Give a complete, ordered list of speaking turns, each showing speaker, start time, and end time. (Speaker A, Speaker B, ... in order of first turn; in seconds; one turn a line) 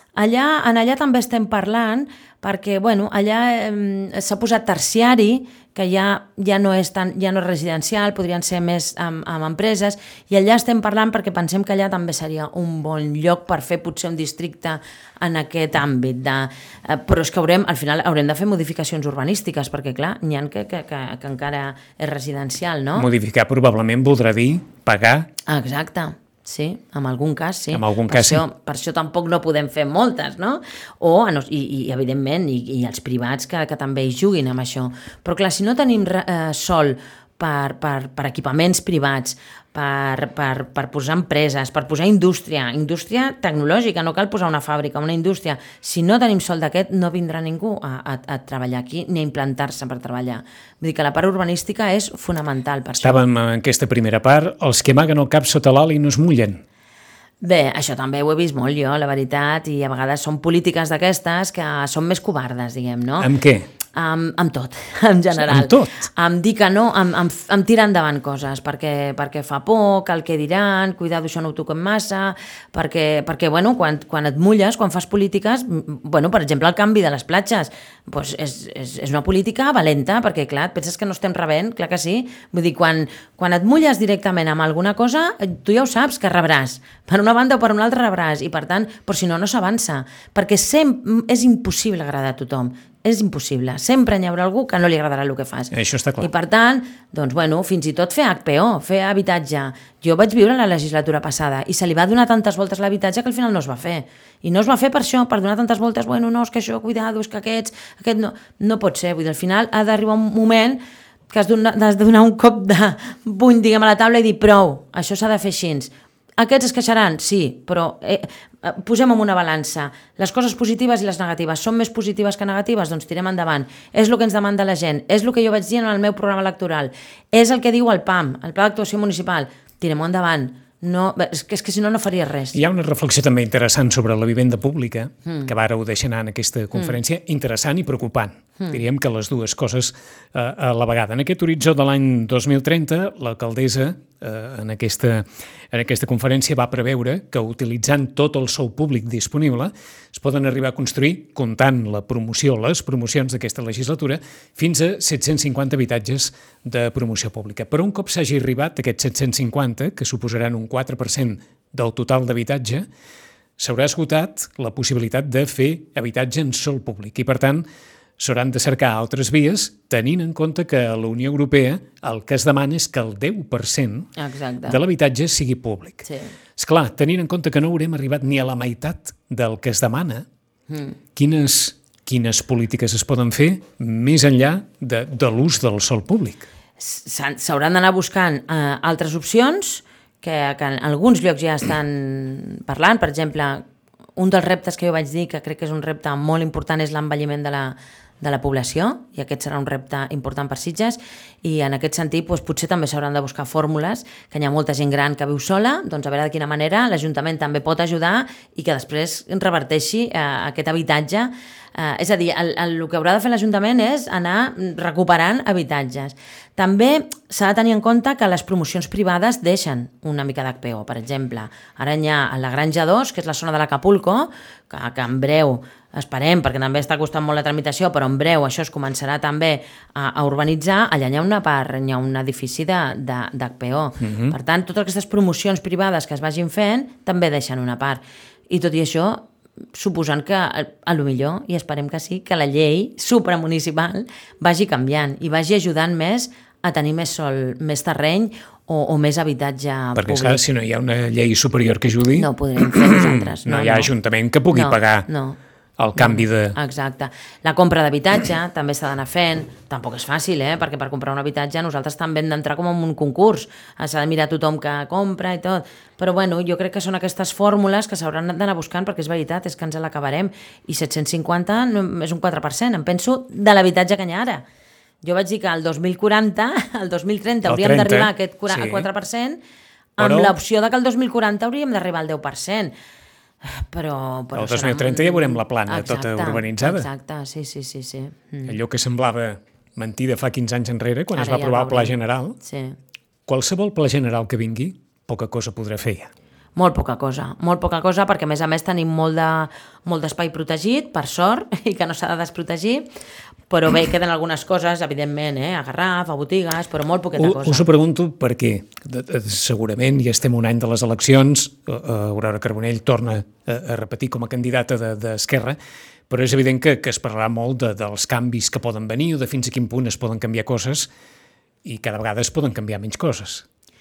Speaker A: 0.1-23.1
Speaker B: 22.9-25.3
Speaker A: 25.4-53.2
Speaker B: 27.7-28.4
Speaker B: 53.0-56.6
Speaker A: 57.4-63.3
Speaker B: 63.2-63.7
Speaker A: 63.9-132.6
Speaker B: 65.3-66.0
Speaker B: 95.7-96.3
Speaker B: 132.5-162.8
Speaker B: 163.6-167.6
Speaker B: 168.2-174.1
Speaker A: 174.2-174.8
Speaker B: 174.7-176.1
Speaker A: 176.0-176.3
Speaker B: 176.6-180.2
Speaker A: 180.7-181.0
Speaker B: 181.2-186.5
Speaker A: 186.8-193.6
Speaker A: 194.2-250.4
Speaker B: 234.0-234.3
Speaker B: 249.9-255.1
Speaker A: 252.2-253.9
Speaker A: 254.5-255.4
Speaker B: 255.8-256.6
Speaker A: 255.9-274.4
Speaker A: 275.0-279.4
Speaker B: 277.5-278.9
Speaker A: 280.0-282.7
Speaker B: 280.0-280.4
Speaker A: 283.4-288.6
Speaker B: 284.3-286.9
Speaker B: 288.4-292.4
Speaker A: 291.1-292.8
Speaker B: 293.2-296.1
Speaker A: 296.6-302.9
Speaker A: 303.5-307.6
Speaker B: 307.2-315.6
Speaker B: 316.1-320.9
Speaker B: 321.6-323.4